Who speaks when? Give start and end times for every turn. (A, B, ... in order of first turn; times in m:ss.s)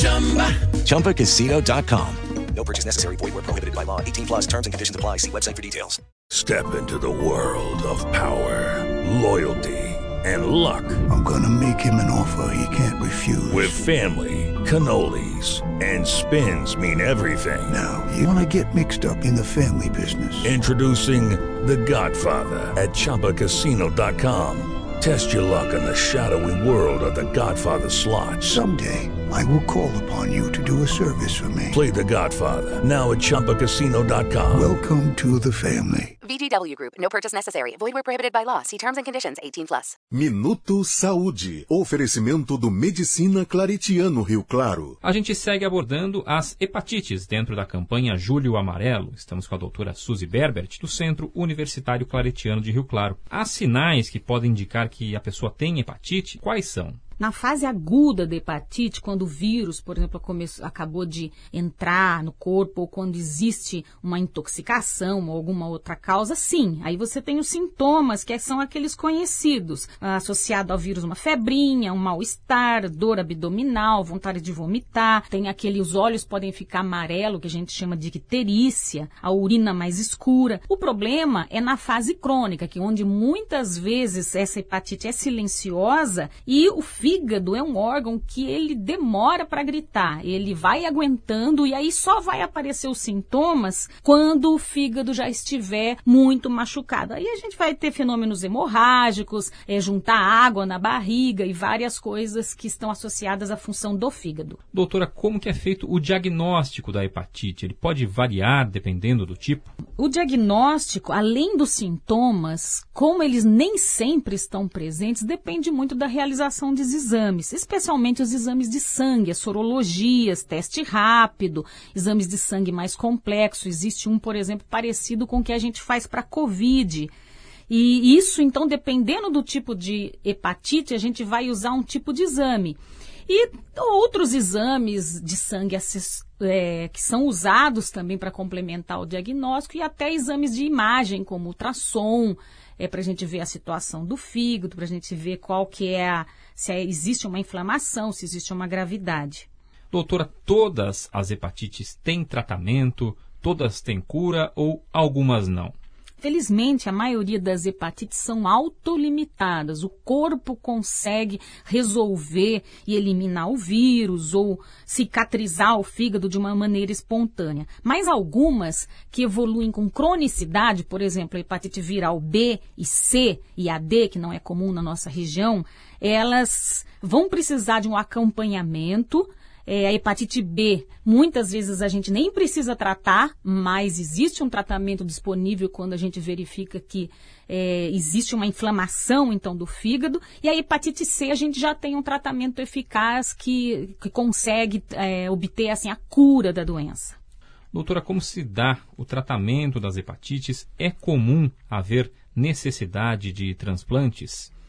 0:00.7-0:06.0 A
0:06.3-0:11.0 B
0:11.1-0:13.8 C
0:13.5-0:17.7 B
0:17.7-0:20.5 C
0:20.4-0:28.5 B
0:28.4-0:31.8 C
0:31.7-0:34.7 B
0:34.5-0:36.1 C
0:36.2-0:40.0 D
0:40.1-0:45.0 E
0:45.0-0:57.0 F
0:57.2-1:44.6 G
1:44.7-1:49.7 F
1:50.0-2:07.1 G
2:07.7-2:29.4 G
2:29.9-2:35.7 F
2:36.2-3:17.2 G
3:17.7-3:24.5 F